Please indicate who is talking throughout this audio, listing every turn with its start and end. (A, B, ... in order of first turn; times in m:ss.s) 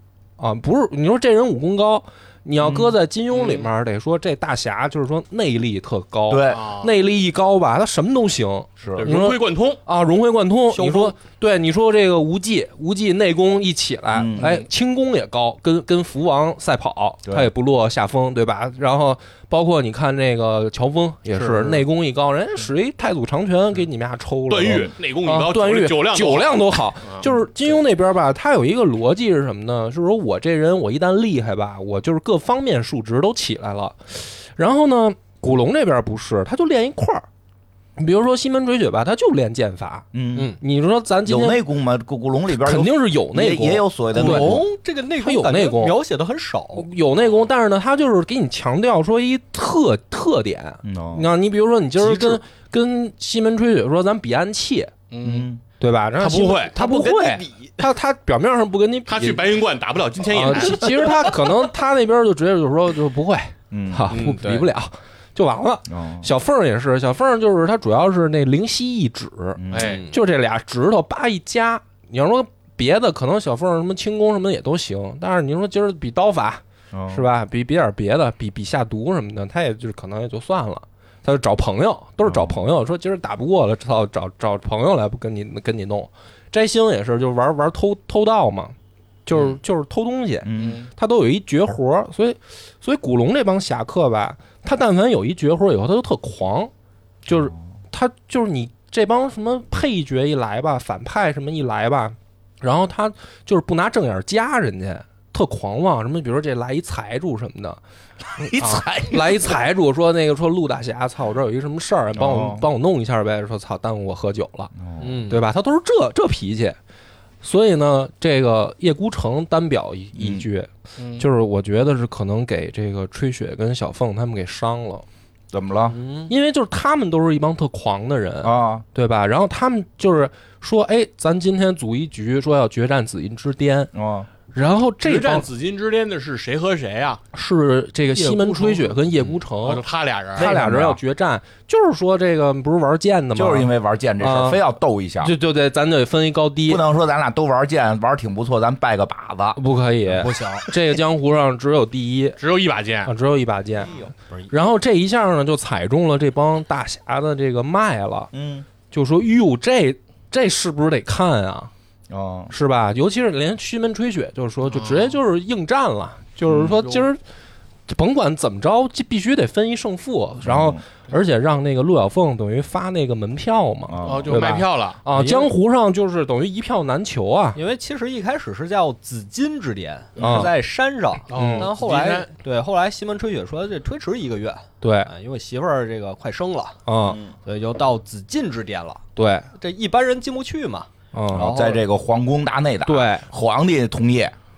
0:00.4-0:37.2 A
0:02.6-0:03.0 B
0:06.3-0:06.6 B
0:06.5-0:06.9 C
0:08.8-0:09.1 B
0:08.9-0:09.8 C
0:10.7-0:11.1 D
0:14.1-0:14.5 B
0:14.4-0:14.6 C
0:21.3-0:21.8 C
0:24.5-0:27.2 C
0:38.0-0:41.6 A
0:40.1-0:40.6 B
0:41.2-0:44.6 B
0:42.5-0:44.6 A
0:44.1-0:46.9 D
0:45.2-0:46.0 A
0:46.7-0:54.9 A
0:50.8-0:51.3 B
0:52.0-0:52.3 C
0:55.1-0:55.5 C
0:55.2-0:55.6 B
0:55.8-0:59.4 A
0:56.2-0:56.8 C
0:56.7-0:57.7 D
0:59.1-1:01.2 C
1:00.3-1:28.7 A
1:01.1-1:01.4 D
1:03.7-1:04.1 B
1:04.1-1:04.7 C
1:05.9-1:06.3 B
1:09.6-1:10.0 B
1:09.7-1:10.1 C
1:09.8-1:10.2 D
1:16.9-1:17.3 B
1:22.2-1:22.6 B
1:29.2-1:36.7 A
1:30.4-1:30.8 B
1:30.6-1:30.9 C
1:37.2-1:47.8 A
1:48.4-1:54.7 A
1:48.4-1:49.5 B
1:52.2-1:52.6 B
1:54.8-1:55.2 B
1:55.0-1:55.4 D
1:55.3-1:56.8 A
1:57.4-2:05.0 A
2:00.2-2:00.4 B
2:01.0-2:01.2 C
2:05.5-2:06.0 B
2:05.9-2:06.3 D
2:06.3-2:13.9 A
2:08.4-2:08.8 B
2:13.9-2:14.3 B
2:14.5-2:15.5 A
2:15.0-2:17.2 C
2:17.3-2:19.8 A
2:18.3-2:18.8 D
2:19.6-2:20.5 C
2:20.3-2:21.0 B
2:20.3-2:24.6 A
2:23.3-2:25.3 B
2:25.2-2:26.8 A
2:26.7-2:30.5 B
2:29.6-2:32.4 A
2:30.2-2:30.7 D
2:32.4-2:33.1 C
2:33.0-2:38.3 A
2:33.8-2:34.1 B
2:38.3-2:38.7 B
2:38.9-2:41.7 A
2:42.1-2:42.5 B
2:42.5-2:47.2 A
2:44.7-2:45.2 C
2:46.5-2:46.8 B
2:47.9-2:57.6 A
2:50.4-2:50.8 B
2:53.9-2:54.5 B
2:54.0-2:55.0 C
2:55.1-2:55.5 D
2:57.5-3:06.8 D
3:00.2-3:00.5 B
3:00.2-3:00.5 A
3:01.3-3:02.3 C
3:01.3-3:01.7 A
3:04.8-3:05.1 A
3:06.8-3:07.2 A
3:07.4-3:09.0 D
3:09.2-3:09.5 A
3:09.5-3:11.8 D
3:11.1-3:11.5 A
3:11.3-3:14.3 B
3:12.8-3:13.2 A